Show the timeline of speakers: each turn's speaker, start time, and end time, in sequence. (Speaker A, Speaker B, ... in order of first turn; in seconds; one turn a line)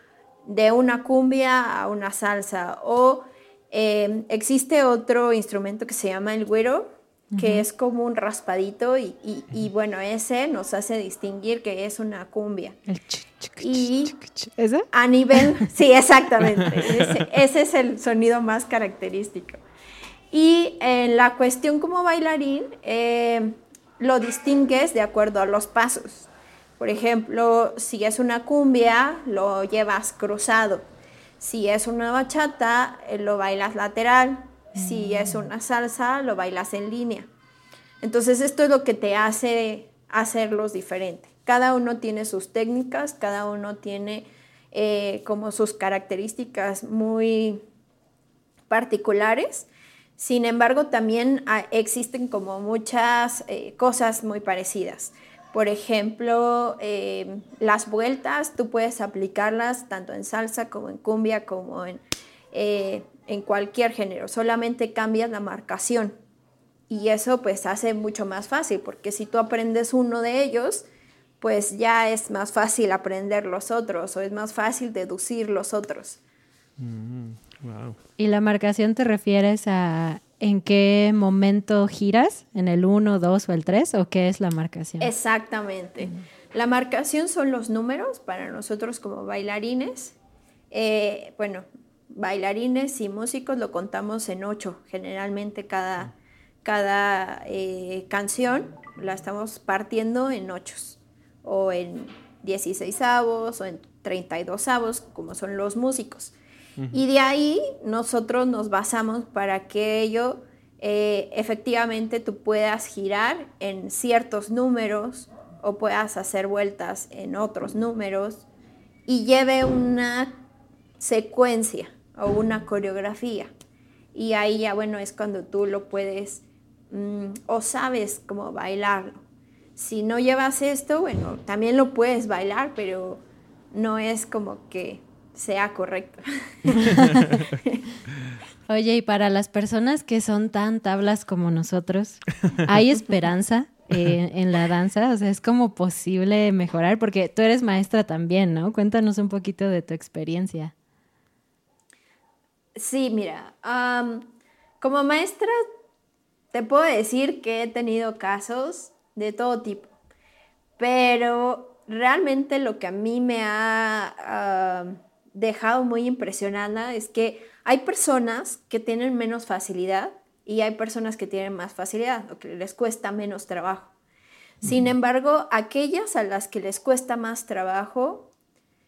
Speaker A: 0.4-12.8
Speaker B: 7.3-7.6
Speaker B: 12.9-14.8
Speaker A: 13.6-14.1
Speaker A: 14.9-19.6
Speaker A: 20.3-30.9
Speaker A: 31.4-37.3
Speaker B: 34.7-35.4
Speaker A: 38.0-47.6
Speaker A: 48.7-66.2
Speaker A: 66.9-70.8
Speaker A: 71.4-76.2
Speaker C: 76.8-78.0
Speaker B: 78.2-85.1
Speaker A: 85.0-90.1
Speaker A: 90.7-96.1
Speaker A: 96.6-106.3
Speaker C: 106.8-107.0
Speaker A: 106.9-118.4
Speaker A: 119.1-120.4
Speaker A: 121.0-123.5
Speaker A: 124.1-129.2
Speaker A: 129.8-136.9
Speaker C: 136.8-137.4
Speaker A: 137.5-137.8
Speaker B: 138.7-150.7
Speaker A: 152.7-154.3
Speaker A: 154.8-155.6
Speaker A: 156.5-159.9
Speaker A: 160.8-173.9
Speaker A: 174.6-178.3